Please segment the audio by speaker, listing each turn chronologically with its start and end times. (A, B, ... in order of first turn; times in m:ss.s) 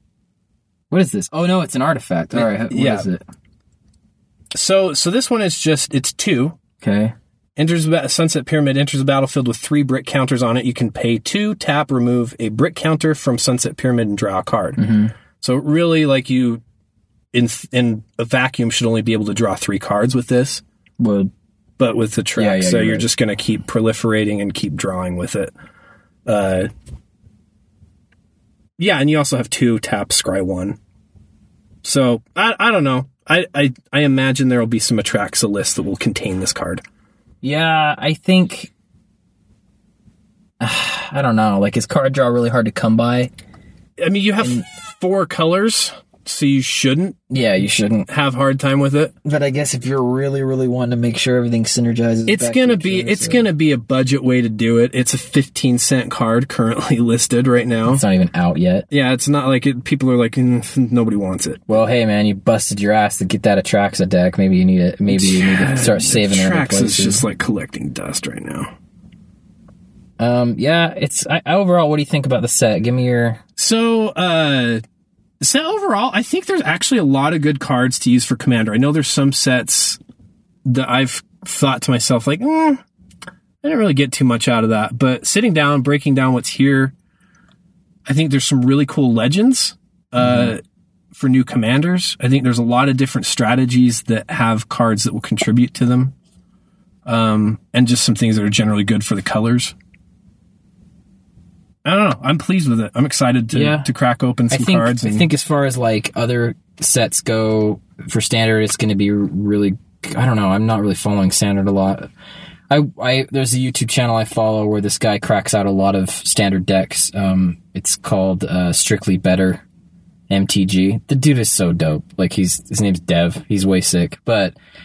0:00.9-0:03.2 A
0:02.3-0:03.1 B
0:04.5-0:06.6 B
0:06.8-0:07.1 A
0:07.6-0:14.8 B
0:14.8-0:15.1 A
0:15.4-0:16.6 B
0:17.3-0:20.6 B
0:21.0-0:21.3 A
0:21.8-0:25.5 B
0:22.4-0:23.1 A
0:26.2-0:26.7 B
0:28.8-0:30.8 B
0:31.8-0:36.8 B
0:37.4-0:38.7 A
0:40.6-0:43.3 A
0:44.0-0:47.2 B
0:47.3-0:48.1 A
0:48.1-0:49.1 B
0:49.2-0:53.5 A
0:52.3-0:58.0 B
0:57.8-0:58.9 A
0:58.9-1:01.6 B
1:01.7-1:07.2 A
1:05.1-1:08.7 B
1:10.2-1:13.4 A
1:13.6-1:14.8 B
1:15.4-1:20.0 B
1:20.6-1:22.8 B
1:23.6-1:26.9 B
1:28.0-1:30.6 B
1:31.1-1:36.1 B
1:37.0-1:39.7 B
1:41.8-1:45.3 B
1:43.5-1:43.9 A
1:44.5-1:52.1 A
1:52.7-1:59.6 A
2:00.3-2:04.5 A